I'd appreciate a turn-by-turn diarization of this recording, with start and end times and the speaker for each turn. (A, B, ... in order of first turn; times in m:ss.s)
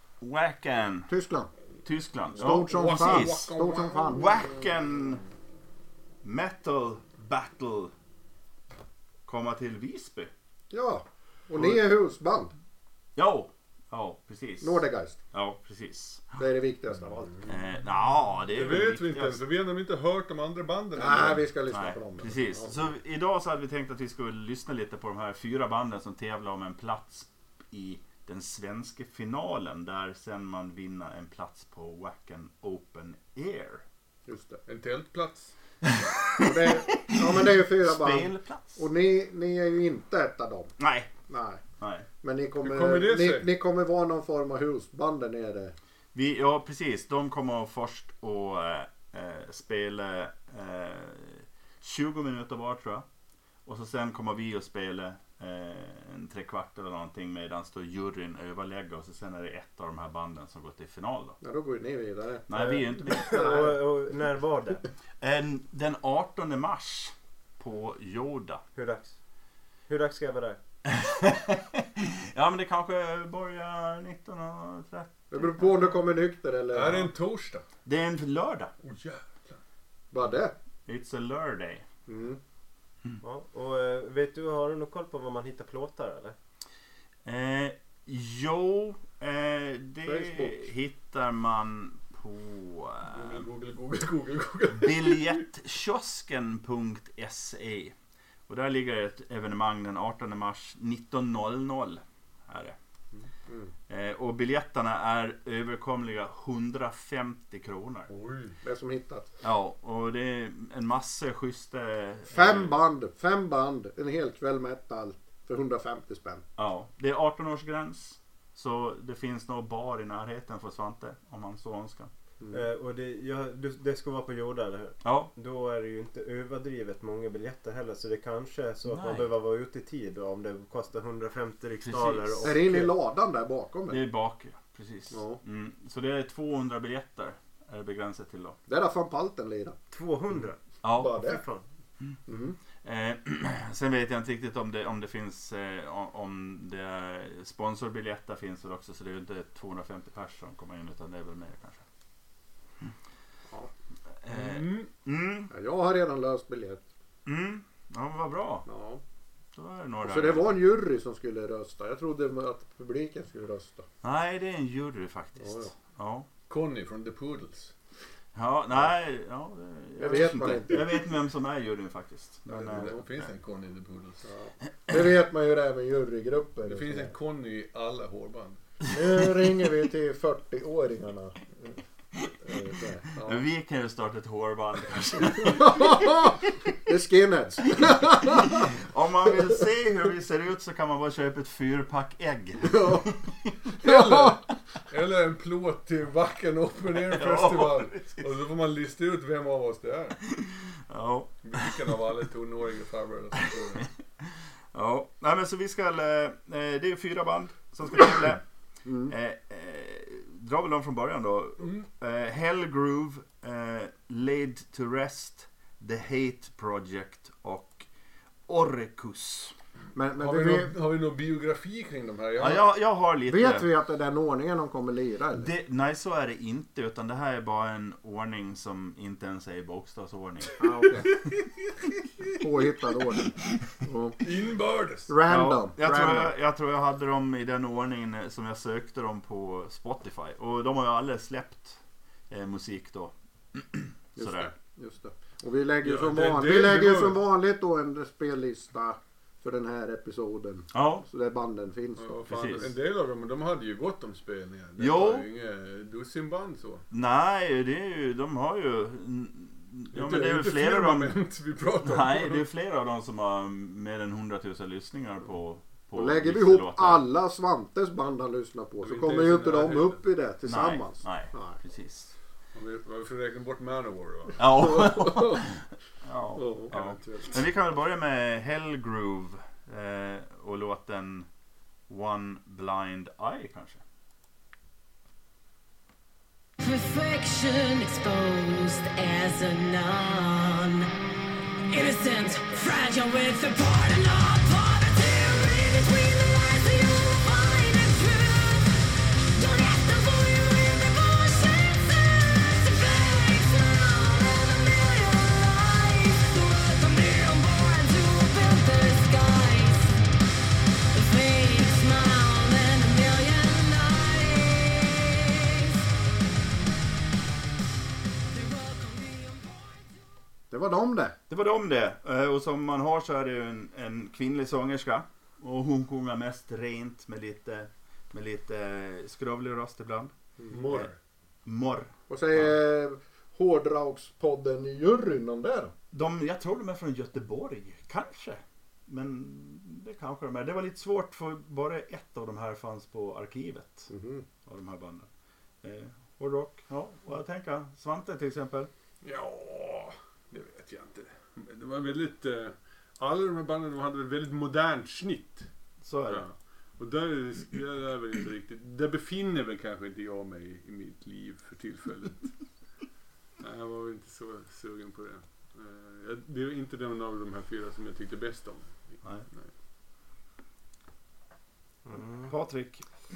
0:00.2-0:01.1 A
0:01.1-0:01.5 B
0:01.8-0:03.5 A
0:02.3-0:04.3 B
0:02.7-0:04.2 C
0:04.1-0:05.2 A
0:06.2-0:07.9 A
0:09.2-0:10.3 A
0:10.7-0:12.5 B
0:13.2-0:16.4 A
0:14.6-0:15.2 B
0:16.4-0:17.5 B
0:17.4-0:19.4 A
0:18.5-0:21.4 C
0:21.0-0:22.8 B
0:21.7-0:33.8 A
0:34.3-0:34.6 B
0:34.7-0:35.5 C
0:35.9-0:36.5 A
0:36.4-0:40.7 B
0:37.8-0:38.8 A
0:40.8-0:41.1 A
0:41.3-0:41.6 B
0:41.8-0:42.1 A
0:42.2-0:45.7 B
0:42.6-0:43.5 C
0:46.1-0:53.0 A
0:53.6-1:01.4 A
1:01.4-1:03.8 B
1:02.5-1:03.6 A
1:03.1-1:04.8 D
1:05.2-1:08.6 A
1:08.7-1:09.1 D
1:09.9-1:10.6 D
1:10.8-1:16.0 A
1:15.3-1:17.1 B
1:16.7-1:17.6 C
1:17.8-1:18.7 A
1:18.8-1:19.6 C
1:20.1-1:20.5 B
1:20.9-1:21.9 A
1:22.1-1:22.4 B
1:23.2-1:26.4 D
1:27.2-1:33.4 A
1:30.0-1:30.7 B
1:33.1-1:35.4 C
1:34.7-1:37.9 A
1:38.5-1:42.8 A
1:43.1-1:43.7 B
1:43.9-1:48.1 A
1:48.1-1:48.6 C
1:48.6-1:49.3 B
1:49.4-1:52.7 A
1:52.3-1:56.4 B
1:56.6-2:02.1 A
2:02.4-2:02.6 B
2:02.5-2:12.9 D
2:05.0-2:05.3 A
2:08.8-2:09.3 A
2:11.8-2:12.6 A
2:12.4-2:14.0 B
2:13.9-2:18.6 A
2:15.1-2:15.4 B
2:18.7-2:19.8 B
2:19.9-2:20.6 D
2:20.8-2:21.2 A
2:20.9-2:21.4 B
2:21.1-2:21.6 D
2:22.3-2:22.6 B
2:22.8-2:31.8 A
2:34.2-2:35.5 A
2:34.3-2:34.9 C
2:35.5-2:36.8 B
2:37.2-2:38.7 A
2:38.6-2:39.0 B
2:39.5-2:40.5 A
2:40.0-2:43.8 B
2:44.0-2:46.3 A
2:45.4-2:45.7 B
2:46.5-2:47.7 C
2:48.3-2:53.2 A
2:50.0-2:51.0 B
2:52.5-2:53.0 B
2:52.6-2:54.2 C
2:54.2-2:57.1 B
2:56.7-2:58.6 C
2:58.9-3:01.7 B
3:02.4-3:03.4 B
3:03.2-3:06.1 A
3:05.3-3:08.7 B
3:07.8-3:13.5 A
3:12.6-3:13.1 B
3:13.8-3:20.2 C
3:13.8-3:14.4 B
3:16.9-3:18.3 A
3:20.3-3:21.7 A
3:21.4-3:23.9 C
3:24.7-3:28.4 A
3:28.8-3:29.1 B
3:29.1-3:37.9 A
3:38.5-3:39.5 A
3:39.9-3:40.7 B
3:40.2-3:42.6 C
3:42.4-3:43.7 A
3:43.3-3:45.5 B
3:45.4-3:50.5 A
3:50.6-3:51.1 B
3:52.4-3:54.2 B
3:54.2-3:55.1 C
3:55.1-3:56.3 B
3:55.3-4:04.5 A
4:04.2-4:12.7 B
4:05.8-4:07.2 C
4:10.7-4:11.0 A
4:12.0-4:16.8 C
4:12.3-4:12.7 A
4:14.8-4:15.2 A
4:16.9-4:21.2 A
4:19.9-4:22.4 C
4:21.8-4:27.0 A
4:25.9-4:31.6 B
4:28.8-4:30.0 C
4:30.4-4:32.1 A
4:32.5-4:34.4 C
4:34.4-4:41.3 A
4:34.6-4:35.4 B
4:36.4-4:37.4 C
4:36.4-4:36.7 B
4:41.9-4:43.8 A
4:46.6-4:50.9 E
4:51.7-5:09.9 E
5:10.9-5:15.8 E
5:18.3-5:20.0 E
5:20.5-5:21.2 B
5:21.3-5:30.1 A
5:30.4-5:30.7 B
5:30.5-5:31.0 C
5:31.4-5:32.5 A
5:32.1-5:35.7 B
5:35.9-5:43.9 A
5:43.9-5:44.2 B
5:44.4-5:45.1 A
5:45.6-5:48.7 A
5:49.0-5:55.5 C
5:55.8-5:56.2 A
5:56.1-6:02.4 C
6:03.4-6:09.5 C
6:11.8-6:12.3 D
6:12.2-6:12.8 A